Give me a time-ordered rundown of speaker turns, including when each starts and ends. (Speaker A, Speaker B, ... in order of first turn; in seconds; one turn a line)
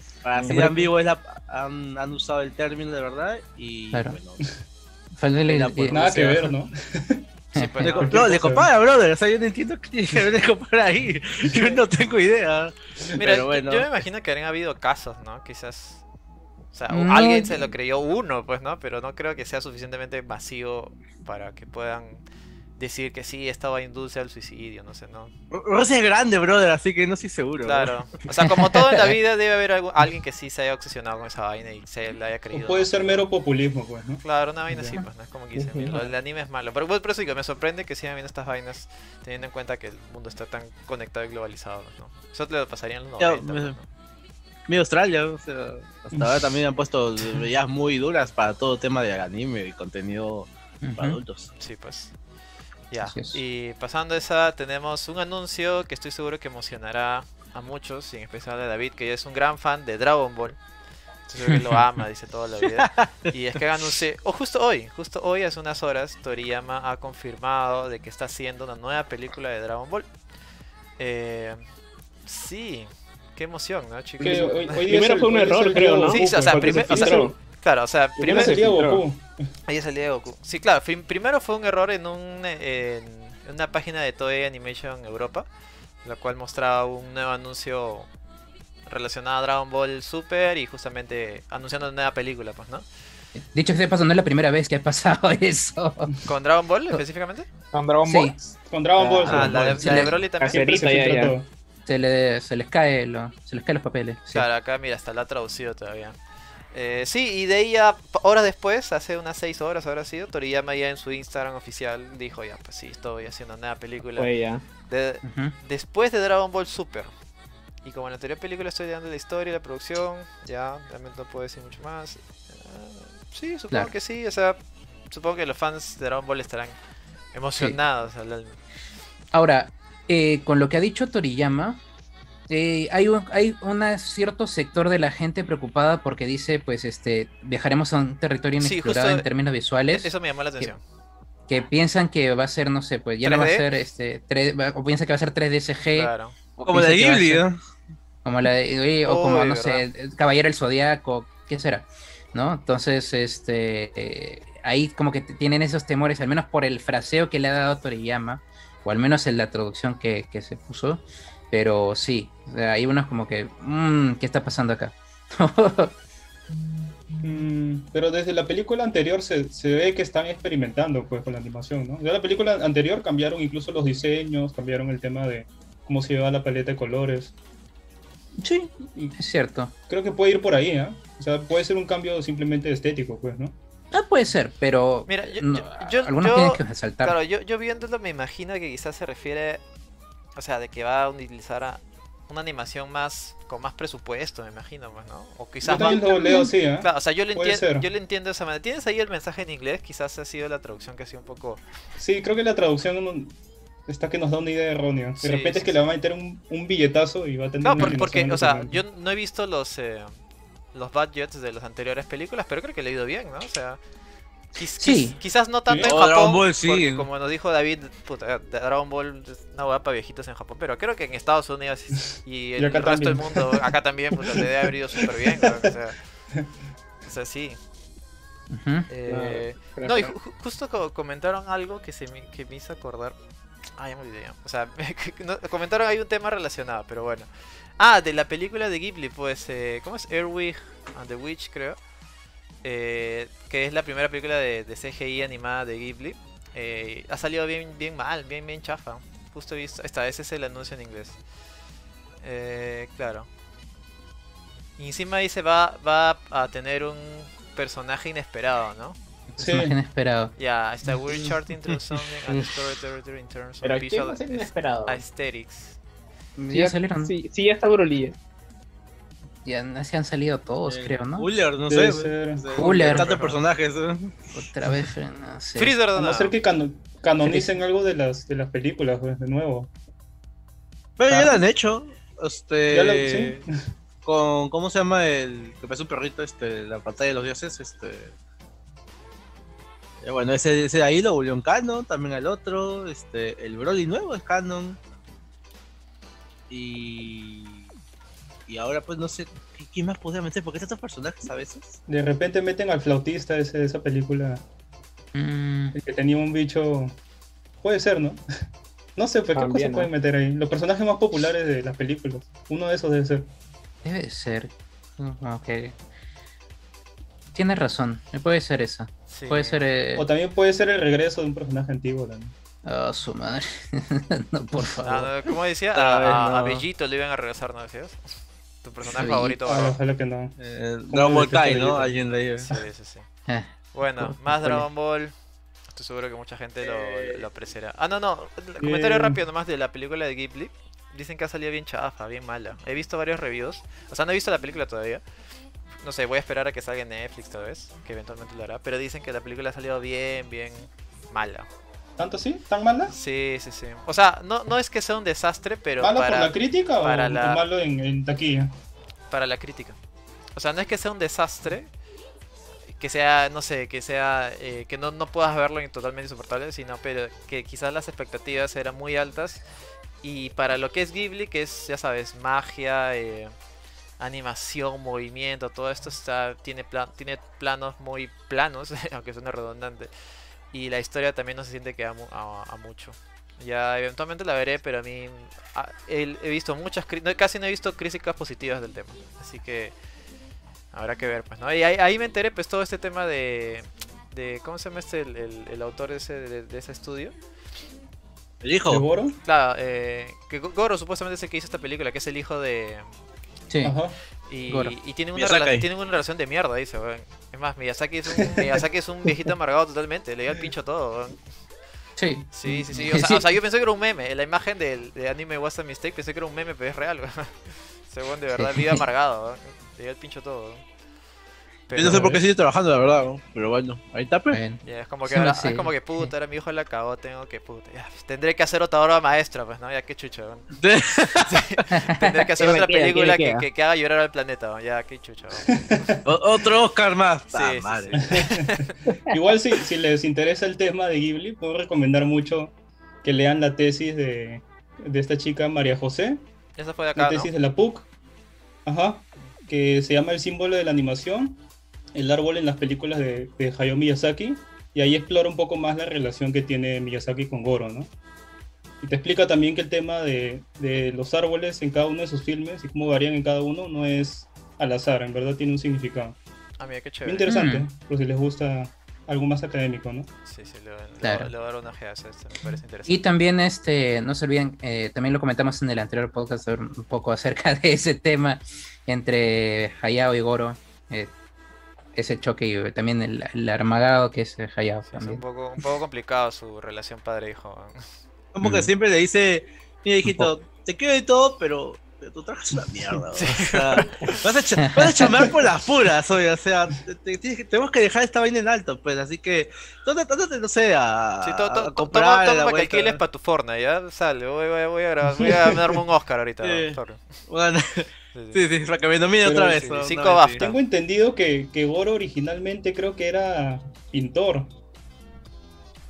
Speaker A: 0.2-4.4
Speaker B: 0.3-0.6
Speaker C: 3.9-4.2
Speaker C: 5.2-6.4
Speaker A: 5.5-6.5
Speaker D: 5.9-7.3
Speaker E: 7.5-8.4
Speaker C: 7.5-8.0
Speaker A: 7.8-13.9
Speaker D: 7.9-8.7
Speaker D: 11.5-11.8
Speaker E: 13.2-16.0
Speaker E: 16.7-22.2
Speaker C: 16.9-17.7
Speaker E: 22.8-25.3
Speaker A: 25.5-27.9
Speaker E: 27.6-33.3
Speaker C: 28.7-29.2
Speaker D: 32.5-35.0
Speaker E: 34.2-43.9
Speaker B: 35.5-36.1
Speaker A: 43.2-43.8
Speaker A: 44.7-51.5
Speaker C: 50.8-51.2
Speaker E: 51.6-52.1
Speaker E: 52.9-60.6
Speaker C: 53.0-53.4
Speaker E: 61.3-70.1
Speaker C: 61.4-61.8
Speaker A: 62.8-63.3
Speaker E: 71.0-71.6
Speaker E: 72.2-74.9
Speaker D: 74.2-77.3
Speaker B: 74.2-77.3
Speaker E: 76.1-78.6
Speaker B: 78.2-79.0
Speaker D: 78.2-79.5
Speaker E: 79.7-85.5
Speaker E: 86.0-88.1
Speaker E: 88.9-92.8
Speaker C: 93.3-96.1
Speaker E: 96.2-97.5
Speaker B: 97.7-101.3
Speaker C: 98.0-98.3
Speaker D: 98.6-101.5
Speaker E: 99.2-100.8
Speaker C: 99.4-100.2
Speaker C: 101.8-104.5
Speaker E: 104.3-106.2
Speaker E: 106.7-114.3
Speaker B: 114.2-114.6
Speaker E: 114.8-117.1
Speaker C: 115.2-115.5
Speaker E: 117.8-124.6
Speaker E: 125.1-126.8
Speaker E: 127.3-128.6
Speaker C: 129.3-131.8
Speaker C: 132.5-140.7
Speaker E: 138.6-139.2
Speaker E: 139.9-140.8
Speaker C: 141.5-147.4
Speaker E: 143.2-143.7
Speaker E: 145.9-146.3
Speaker A: 146.6-147.6
Speaker C: 148.2-165.9
Speaker E: 149.0-149.8
Speaker D: 167.2-177.3
Speaker D: 178.4-179.2
Speaker C: 179.2-179.7
Speaker D: 179.9-183.6
Speaker C: 183.9-187.2
Speaker E: 185.1-189.6
Speaker E: 190.3-201.6
Speaker D: 195.6-197.9
Speaker D: 202.0-203.3
Speaker D: 203.8-208.8
Speaker E: 205.2-205.8
Speaker E: 207.6-210.1
Speaker E: 210.7-213.8
Speaker E: 214.5-226.0
Speaker C: 214.8-215.1
Speaker D: 215.7-215.9
Speaker A: 215.8-217.1
Speaker D: 222.6-223.7
Speaker D: 225.2-225.6
Speaker E: 227.0-227.6
Speaker C: 228.5-228.9
Speaker E: 228.9-233.2
Speaker B: 229.1-230.1
Speaker E: 233.8-241.8
Speaker E: 242.6-251.2
Speaker E: 252.2-253.3
Speaker E: 254.8-258.9
Speaker C: 259.4-260.3
Speaker D: 259.4-259.7
Speaker E: 260.4-265.8
Speaker B: 263.6-265.0
Speaker C: 266.4-267.1
Speaker B: 266.5-268.1
Speaker C: 269.4-271.3
Speaker A: 270.6-274.3
Speaker D: 271.7-272.9
Speaker C: 272.6-273.1
Speaker E: 272.8-273.4
Speaker C: 274.3-275.7
Speaker E: 275.6-276.4
Speaker D: 275.9-279.7
Speaker C: 277.2-277.5
Speaker A: 281.0-283.4
Speaker D: 281.1-281.4
Speaker D: 282.7-283.5
Speaker A: 284.0-288.1
Speaker A: 290.0-294.8
Speaker A: 296.5-297.7
Speaker A: 298.5-301.8
Speaker D: 301.9-304.4
Speaker C: 305.1-305.7
Speaker D: 305.7-307.0
Speaker D: 307.6-308.2
Speaker D: 308.9-313.3
Speaker B: 309.3-309.9
Speaker C: 313.8-315.8
Speaker C: 317.3-320.1
Speaker E: 319.1-319.6
Speaker D: 319.9-322.3
Speaker C: 322.6-325.1
Speaker E: 324.8-329.8
Speaker C: 326.0-326.6
Speaker C: 328.9-329.4
Speaker D: 329.4-330.4
Speaker A: 330.4-332.5
Speaker D: 330.9-332.0
Speaker E: 332.5-333.1
Speaker C: 333.3-334.6
Speaker E: 333.7-335.1
Speaker E: 335.7-345.0
Speaker A: 336.6-337.2
Speaker D: 338.6-339.2
Speaker E: 345.8-351.5
Speaker D: 352.0-352.9
Speaker E: 352.9-357.4
Speaker D: 355.8-358.5
Speaker E: 359.1-359.8
Speaker E: 360.4-361.7
Speaker E: 362.8-369.4
Speaker E: 370.0-373.3
Speaker E: 374.0-379.9
Speaker E: 380.5-389.7
Speaker E: 390.7-397.1
Speaker A: 398.4-398.9
Speaker D: 398.7-399.2
Speaker E: 399.2-402.9
Speaker C: 403.5-403.7
Speaker D: 403.6-404.0
Speaker E: 404.2-411.2
Speaker C: 404.5-404.7
Speaker A: 405.1-405.6
Speaker D: 408.2-408.6
Speaker C: 412.0-413.2
Speaker E: 412.3-420.6
Speaker C: 418.3-418.8
Speaker E: 421.7-422.1
Speaker A: 421.8-424.4
Speaker C: 421.9-422.2
Speaker C: 424.3-426.1
Speaker E: 424.6-430.5
Speaker A: 430.6-431.5
Speaker E: 431.3-435.9
Speaker C: 431.7-432.2
Speaker B: 432.4-433.4
Speaker D: 435.5-436.0
Speaker A: 436.0-438.1
Speaker E: 437.3-438.7
Speaker D: 437.9-446.2
Speaker E: 446.6-447.3
Speaker D: 446.9-447.9
Speaker D: 448.6-451.4
Speaker D: 451.9-457.9
Speaker D: 458.8-466.2
Speaker E: 466.6-467.3
Speaker D: 467.0-470.1
Speaker C: 467.3-467.7
Speaker E: 470.2-473.0
Speaker C: 471.0-471.3
Speaker C: 472.9-481.1
Speaker C: 481.9-485.2
Speaker E: 484.9-487.9
Speaker A: 488.3-503.0
Speaker C: 488.4-488.7
Speaker C: 490.1-490.3
Speaker E: 493.1-494.2
Speaker C: 494.6-495.1
Speaker E: 501.2-507.0
Speaker D: 505.2-505.6
Speaker A: 506.4-510.4
Speaker E: 508.1-508.4
Speaker D: 509.2-509.5
Speaker E: 509.3-510.5
Speaker D: 510.4-514.5